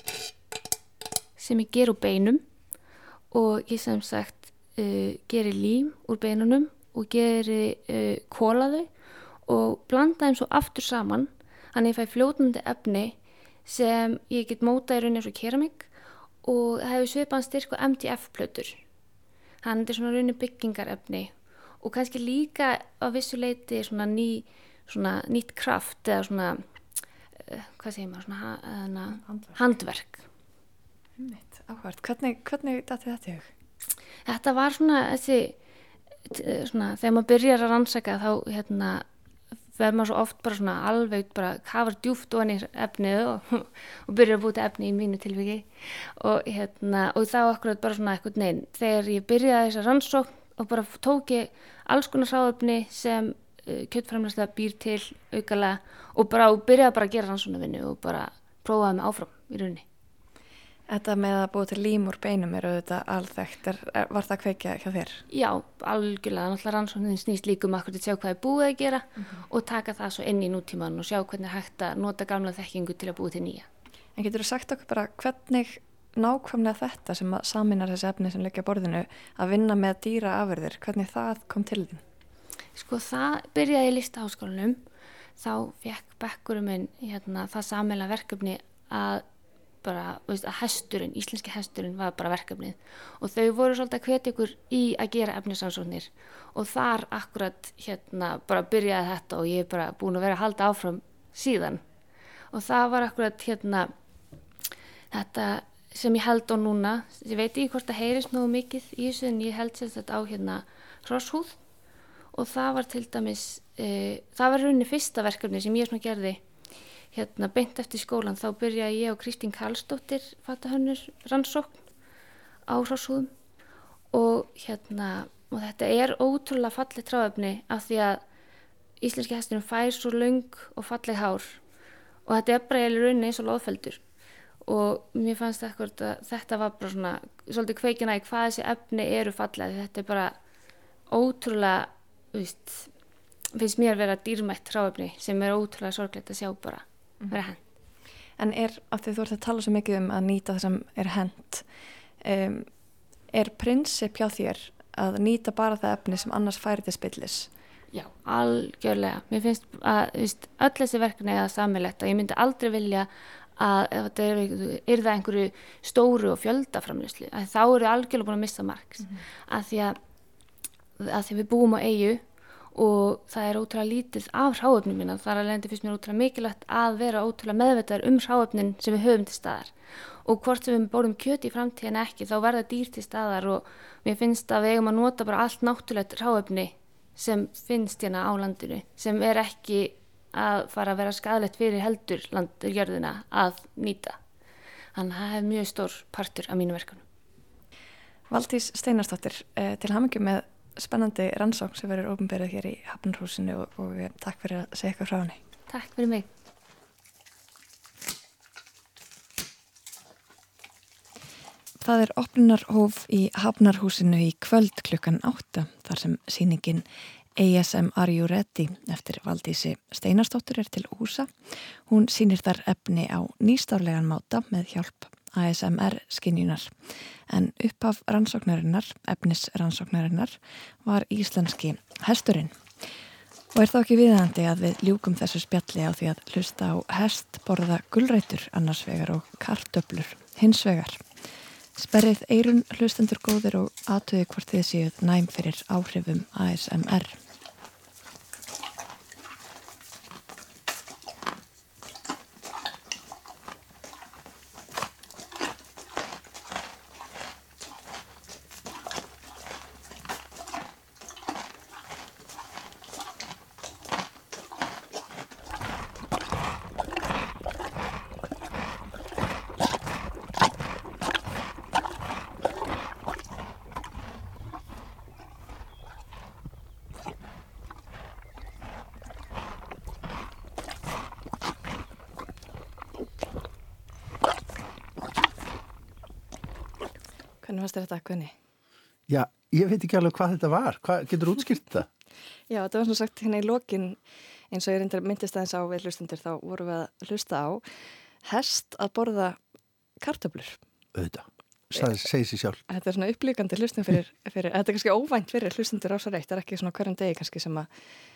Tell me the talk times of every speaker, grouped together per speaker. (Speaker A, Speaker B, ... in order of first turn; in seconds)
Speaker A: 1.4-2.4, 3.3-8.9, 9.4-15.9, 16.4-18.8, 19.6-26.6, 27.4-30.2, 34.2-35.5, 36.3-39.0, 39.8-59.8, 65.3-73.7, 82.8-84.8, 85.4-89.2, 89.8-101.8, 102.5-103.9, 105.1-111.6, 112.3-116.4, 117.1-121.8, 122.7-123.3, 124.1-128.2, 129.0-131.6, 132.2-134.0, 134.6-140.3, 141.1-142.9, 143.5-147.6, 157.9-170.0, 171.0-179.7, 180.2-194.2, 194.9-197.0, 205.7-206.3
Speaker B: 31.2-33.5, 60.9-65.2, 74.2-82.0, 148.4-151.7, 152.2-152.7, 153.3-157.5, 198.3-205.4, 211.8-216.8, 217.4-226.7, 227.3-232.5, 233.5-241.0, 241.8-247.2, 287.4-288.3, 292.5-294.0, 294.5-297.6, 298.2-299.4, 300.0-300.6, 302.7-307.7
Speaker C: 289.1-291.9, 300.9-302.6